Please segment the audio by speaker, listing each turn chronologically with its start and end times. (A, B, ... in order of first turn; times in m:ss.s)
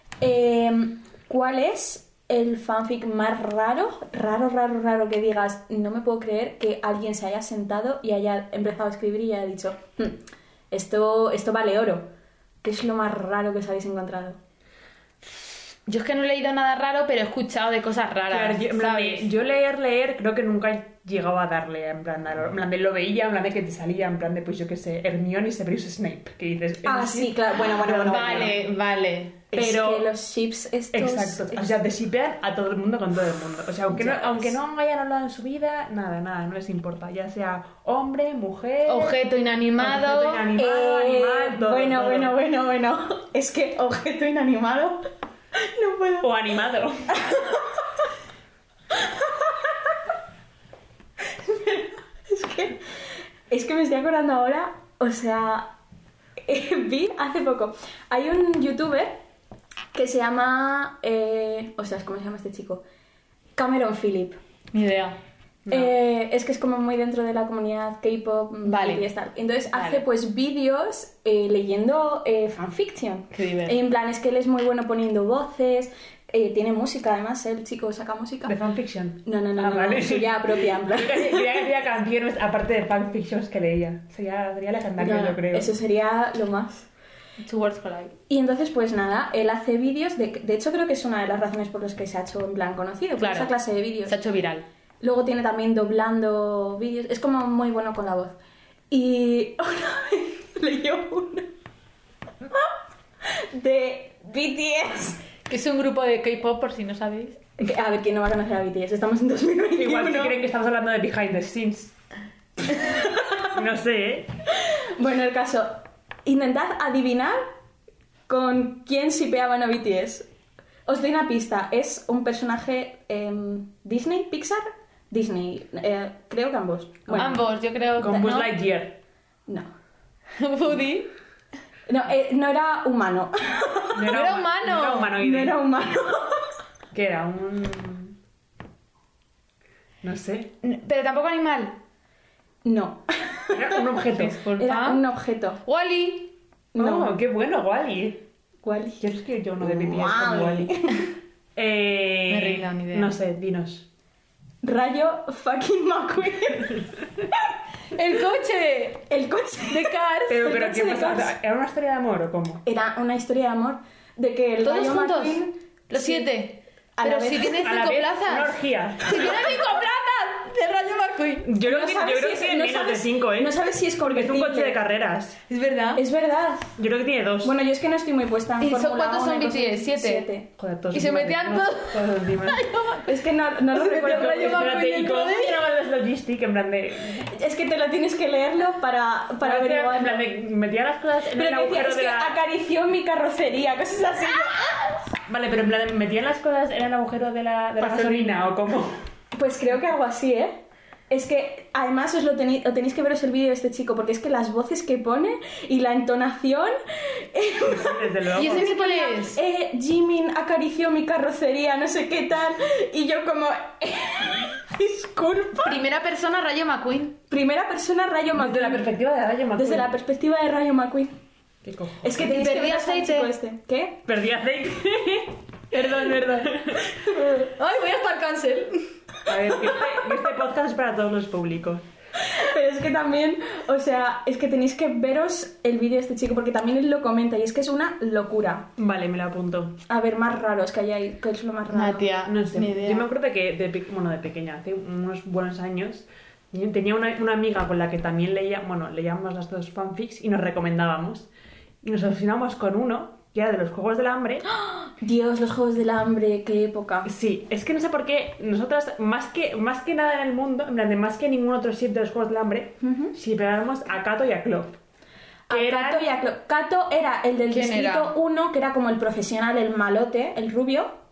0:00.2-0:10.2 A
0:10.7-0:12.1 A
0:12.6-0:14.4 A
0:15.9-0:19.3 B
0:18.3-0:28.6 C
0:26.8-0:28.6 A
0:27.9-0:29.4 B
0:29.5-0:30.1 C
0:29.5-0:31.8 A
0:30.9-0:39.2 C
0:33.9-0:34.6 A
0:38.9-0:40.5 B
0:39.8-0:42.4 C
0:40.6-0:45.1 A
0:45.6-0:46.3 A
0:46.2-0:47.2 C
0:47.1-0:47.9 A
0:49.0-0:50.0 A
0:51.4-0:52.8 A
0:53.5-0:55.7 A
0:56.4-0:59.2 A
0:59.9-1:02.8 A
1:03.6-1:04.4 A
1:04.7-1:05.2 B
1:05.7-1:18.6 A
1:08.6-1:09.1 B
1:09.7-1:10.0 B
1:13.3-1:13.8 B
1:18.5-1:25.7 C
1:19.2-1:21.6 A
1:25.0-1:26.9 A
1:27.4-1:28.2 B
1:28.3-1:34.2 A
1:33.2-1:34.7 B
1:35.0-1:38.4 A
1:38.9-1:41.5 A
1:43.2-1:45.2 A
1:45.5-1:47.4 B
1:47.6-1:50.4 A
1:49.8-1:52.0 C
1:52.7-1:53.5 A
1:53.5-1:54.3 C
1:54.6-1:57.4 A
1:58.3-2:00.3 A
2:00.9-2:07.4 A
2:07.1-2:07.4 C
2:07.2-2:08.5 B
2:08.0-2:09.0 C
2:08.1-2:08.3 A
2:10.4-2:11.1 B
2:11.9-2:14.0 A
2:13.9-2:15.6 C
2:14.1-2:15.1 B
2:15.2-2:16.5 A
2:16.9-2:18.2 C
2:20.0-2:20.5 C
2:20.6-2:21.8 B
2:22.6-2:23.9 A
2:23.5-2:24.4 C
2:24.2-2:25.1 B
2:24.6-2:25.6 A
2:25.6-2:26.3 B
2:26.7-2:27.1 A
2:26.8-2:28.2 C
2:28.6-2:29.0 A
2:29.0-2:30.8 C
2:29.6-2:31.1 A
2:31.6-2:33.9 C
2:32.3-2:33.1 B
2:34.6-2:36.9 A
2:38.0-2:39.1 B
2:39.1-2:41.3 A
2:39.7-2:40.5 B
2:40.3-2:42.6 C
2:42.6-2:46.3 A
2:44.6-2:51.5 B
2:47.0-2:47.6 A
2:47.6-2:49.6 C
2:51.4-2:55.4 C
2:51.6-2:54.8 A
2:55.5-2:56.0 B
2:56.0-2:56.8 A
2:56.8-2:57.5 C
2:57.4-3:00.5 A
2:58.6-3:00.3 B
3:00.6-3:02.7 C
3:00.9-3:03.2 B
3:03.0-3:04.9 A
3:03.7-3:05.6 B
3:03.8-3:07.3 C
3:07.3-3:10.3 A
3:09.4-3:12.4 C
3:11.3-3:14.9 A
3:15.3-3:19.0 C
3:17.8-3:18.4 A
3:19.4-3:35.8 A
3:27.7-3:28.7 C
3:28.4-3:29.4 B
3:35.6-3:37.2 B
3:37.3-3:38.9 A
3:38.4-3:39.9 C
3:39.6-3:41.1 A
3:41.6-3:42.3 C
3:42.0-3:44.0 A
3:42.2-3:43.3 B
3:44.1-3:47.0 C
3:47.0-3:48.9 B
3:49.3-3:51.8 C
3:52.2-3:58.7 A
3:58.8-3:59.8 C
3:59.9-4:02.1 A
4:01.7-4:03.1 B
4:02.2-4:11.3 C
4:11.8-4:14.4 C
4:14.7-4:17.1 A
4:17.0-4:24.8 C
4:22.8-4:23.2 A
4:25.5-4:30.9 A
4:25.5-4:26.1 C
4:27.5-4:28.1 B